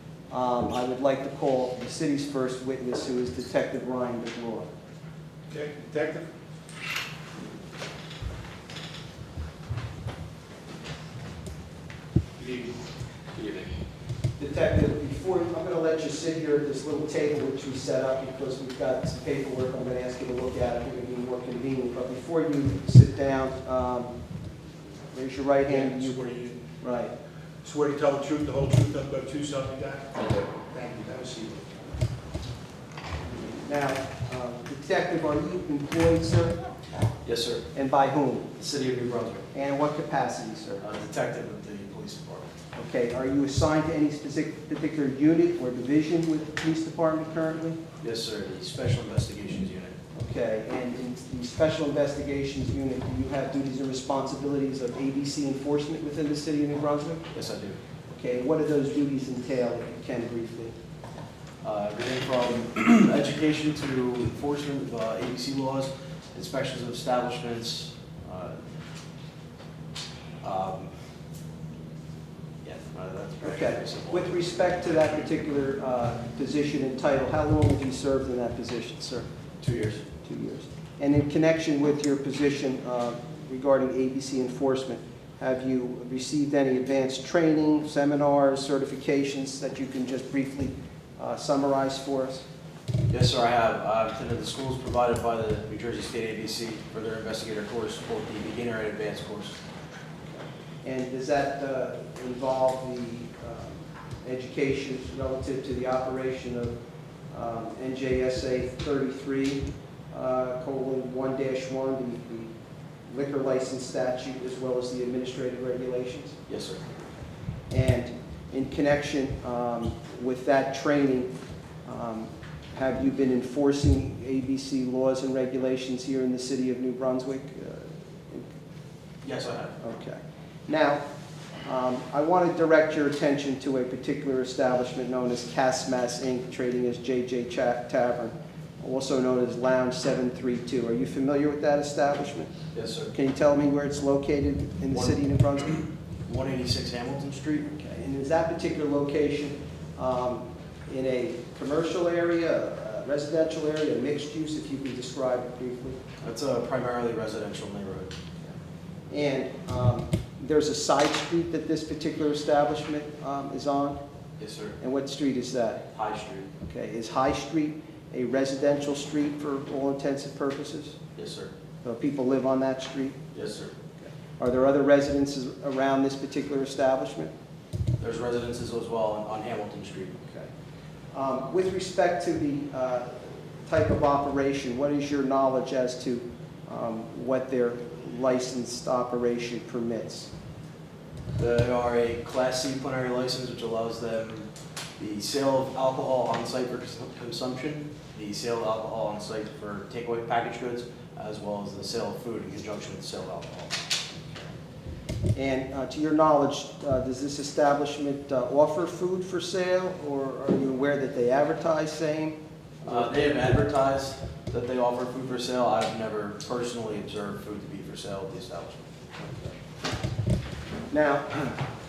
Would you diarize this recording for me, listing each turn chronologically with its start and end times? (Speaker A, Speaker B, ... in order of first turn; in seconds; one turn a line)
Speaker A: 0.3-4.7
Speaker B: 5.5-6.3
Speaker B: 12.4-12.8
Speaker C: 13.3-13.7
Speaker A: 14.4-24.1
Speaker A: 25.1-26.2
Speaker B: 25.7-26.6
Speaker A: 26.8-27.1
Speaker B: 27.6-32.0
Speaker A: 33.2-36.6
Speaker C: 37.2-37.7
Speaker A: 37.7-38.5
Speaker C: 38.6-39.5
Speaker A: 39.5-40.8
Speaker C: 40.8-42.5
Speaker A: 42.8-47.8
Speaker C: 48.0-50.0
Speaker A: 50.1-57.3
Speaker C: 57.3-57.8
Speaker A: 58.1-60.7
Speaker C: 61.6-68.6
Speaker C: 70.4-70.9
Speaker C: 72.6-74.8
Speaker A: 73.4-79.3
Speaker C: 79.6-80.0
Speaker A: 80.2-92.5
Speaker C: 93.1-99.6
Speaker A: 100.3-106.8
Speaker A: 107.3-112.5
Speaker A: 113.1-116.4
Speaker C: 116.5-116.8
Speaker A: 117.7-121.3
Speaker A: 121.9-128.5
Speaker C: 129.2-129.8
Speaker A: 129.8-131.0
Speaker A: 131.7-142.5
Speaker C: 142.7-143.1
Speaker A: 143.1-145.8
Speaker C: 146.3-147.7
Speaker A: 147.8-156.0
Speaker C: 156.2-158.1
Speaker A: 159.1-164.0
Speaker C: 164.4-164.8
Speaker A: 164.8-165.9
Speaker C: 165.9-166.5
Speaker A: 166.7-171.0
Speaker C: 171.2-171.5
Speaker A: 171.8-173.2
Speaker C: 173.3-173.7
Speaker A: 174.4-177.3
Speaker C: 178.0-180.2
Speaker A: 181.1-190.3
Speaker C: 191.4-194.5
Speaker C: 195.0-203.8
Speaker A: 205.3-213.1
Speaker C: 212.8-218.9
Speaker A: 220.9-221.6